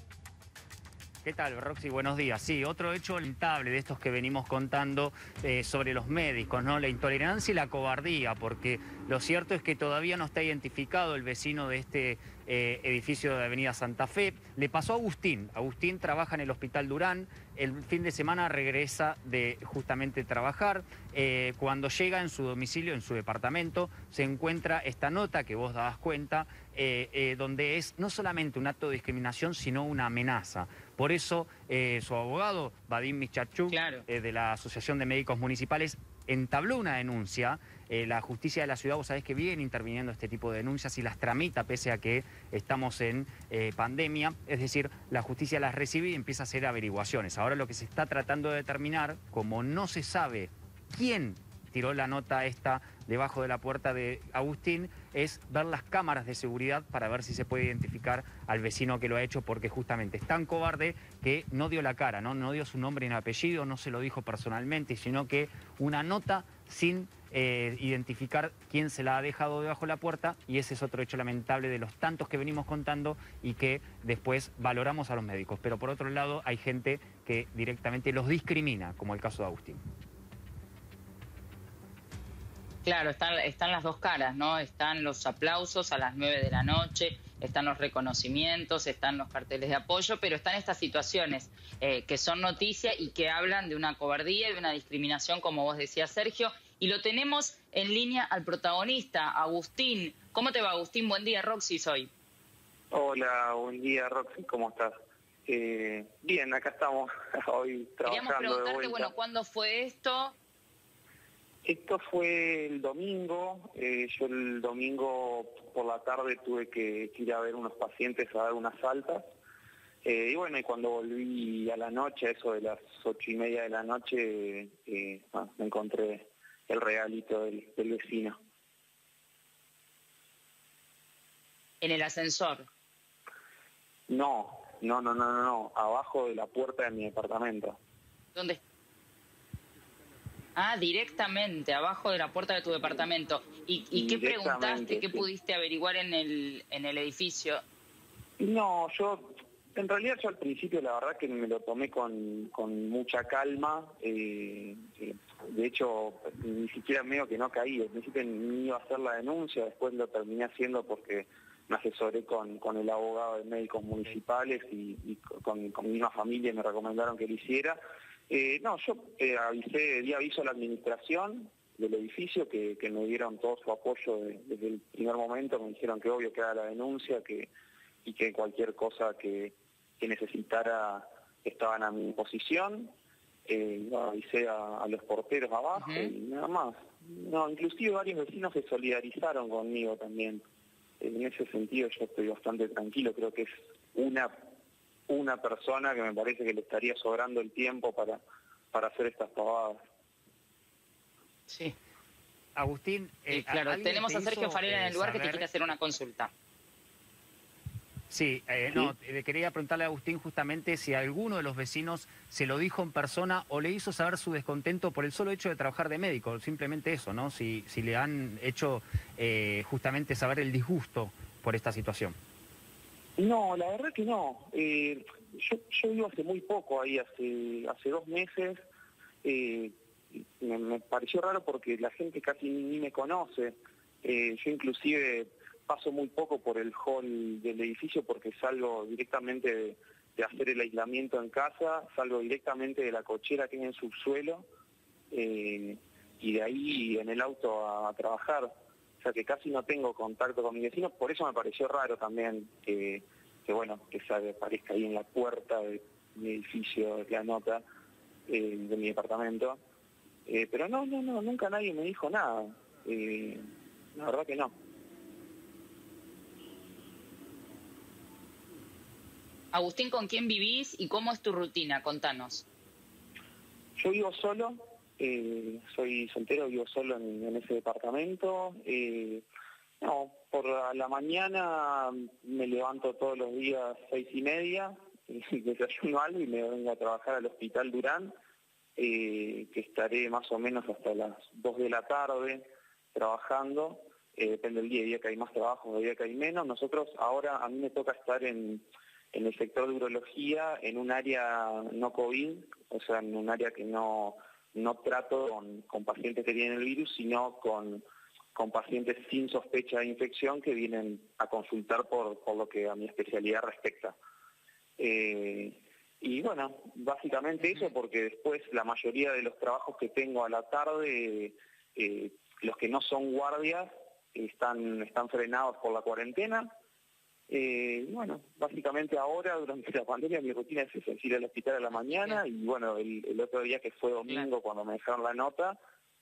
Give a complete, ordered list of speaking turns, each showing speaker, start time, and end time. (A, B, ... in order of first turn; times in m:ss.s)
0:01.2-1:19.8 A
0:33.7-0:34.0 B
1:22.8-1:42.1 B
1:42.9-1:44.9 C
1:45.4-1:49.1 C
1:48.0-1:50.4 B
1:51.6-1:59.2 C
2:00.0-2:08.4 C
2:11.8-2:12.7 B
2:14.1-2:17.8 C
2:18.3-2:18.6 B
2:20.6-2:27.6 B
2:23.9-2:25.3 C
2:28.4-2:57.5 C
2:58.0-3:02.9 C
3:03.4-3:10.4 C
3:05.7-3:06.1 B
3:11.0-3:14.5 C
3:15.1-3:18.2 C
3:18.7-3:19.8 C
3:21.5-3:21.7 B
3:22.5-3:25.5 A
3:23.3-3:26.3 B
3:28.1-3:42.2 A
3:43.2-3:48.6 C
3:49.2-4:04.5 C
4:05.1-4:17.6 C
4:18.3-4:19.6 C
4:20.2-4:24.5 C
4:29.5-4:32.4 B
4:33.8-4:39.2 C
4:39.8-4:48.1 C
4:48.8-5:07.8 C
5:08.3-5:13.9 C
5:14.8-5:26.5 C
5:27.3-5:35.6 C